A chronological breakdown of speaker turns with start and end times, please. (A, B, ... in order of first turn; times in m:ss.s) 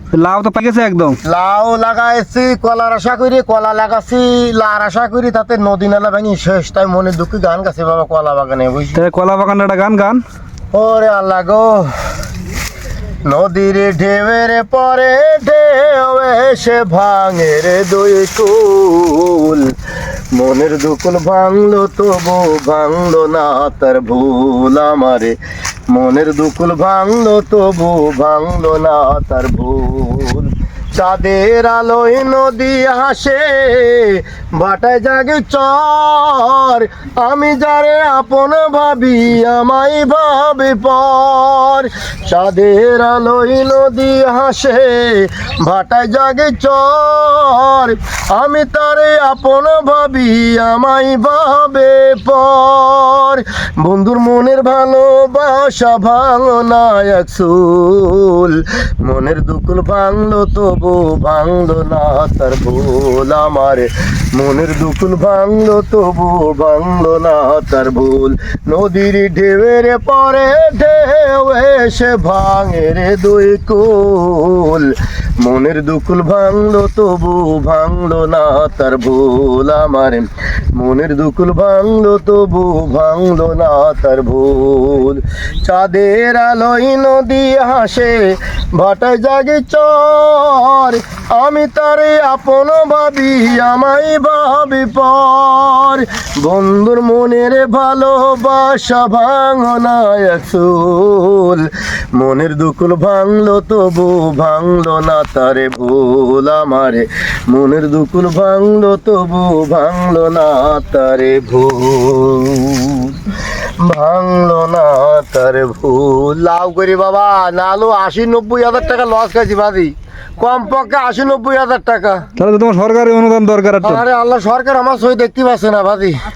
0:00.1-0:01.2 A
0:01.2-0:09.0 B
0:09.0-0:10.2 A
0:10.7-0:11.9 B
0:13.2-0:19.7 B
0:20.3-0:25.4 B
0:25.9-2:02.3 B
2:02.4-2:04.0 A
2:03.8-2:06.2 B